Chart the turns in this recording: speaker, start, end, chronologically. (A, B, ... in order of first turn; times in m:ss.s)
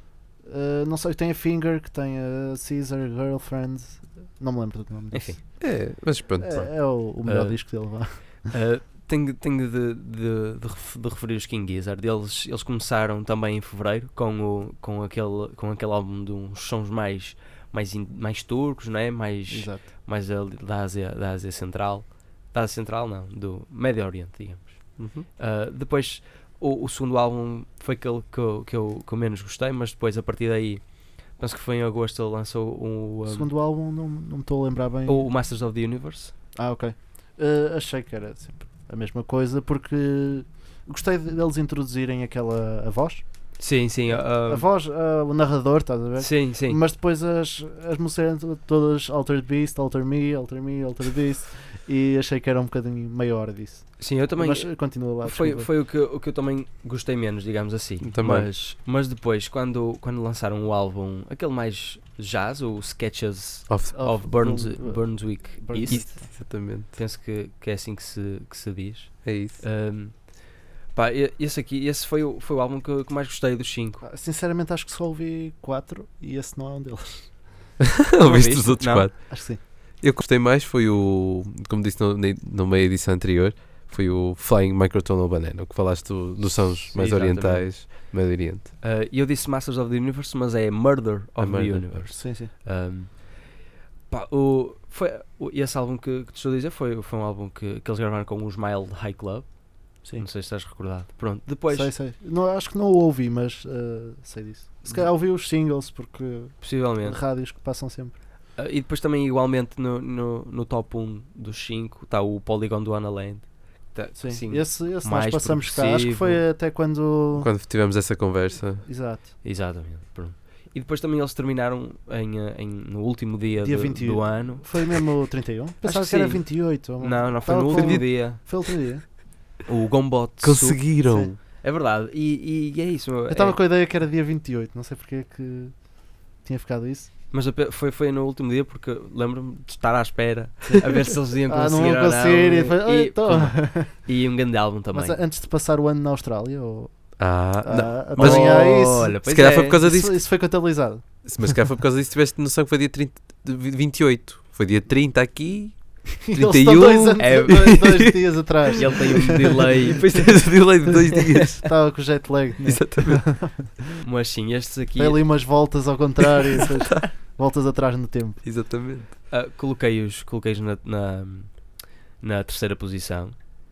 0:00.4-0:05.7 A
0:05.1-0:05.4 B
0:05.6-0:06.6 C
0:06.4-0:08.4 A
0:06.5-0:33.5 B
0:19.5-0:19.8 A
0:25.0-0:25.2 C
0:33.3-0:35.3 A
0:35.0-0:36.3 B
0:36.6-0:43.2 A
0:43.6-0:44.7 B
0:44.1-0:55.7 A
0:46.2-0:46.8 B
0:54.0-1:10.4 B
0:58.0-0:58.5 C
1:03.7-1:03.9 C
1:03.9-1:06.3 A
1:05.9-1:06.9 C
1:09.2-1:09.6 C
1:10.9-1:14.0 B
1:14.0-1:17.4 A
1:18.1-1:28.7 C
1:18.2-1:19.1 B
1:19.3-1:19.6 A
1:26.5-1:28.1 B
1:28.8-1:33.4 B
1:31.4-1:32.0 C
1:32.1-1:32.5 A
1:34.1-1:41.9 B
1:41.7-1:48.2 A
1:46.6-1:47.2 B
1:48.6-1:56.4 B
1:54.2-1:57.5 A
1:57.3-1:58.8 C
1:58.8-1:59.2 A
1:59.4-2:05.0 B
2:03.6-2:09.1 A
2:05.8-2:08.4 B
2:07.7-2:08.0 C
2:09.6-2:10.9 B
2:10.4-2:11.4 C
2:11.5-2:13.6 B
2:13.3-2:15.8 A
2:16.4-2:17.1 A
2:17.3-2:25.2 B
2:21.5-2:24.1 A
2:24.9-2:29.2 A
2:27.2-2:30.2 C
2:28.2-2:29.8 B
2:29.8-2:31.2 A
2:31.2-2:38.1 C
2:36.2-2:39.5 A
2:37.2-2:37.7 B
2:38.8-2:40.6 B
2:40.0-2:41.6 C
2:41.6-2:43.7 A
2:42.7-2:43.3 C
2:44.0-2:45.2 B
2:45.0-2:48.4 A
2:48.4-2:49.1 C
2:49.3-2:53.4 B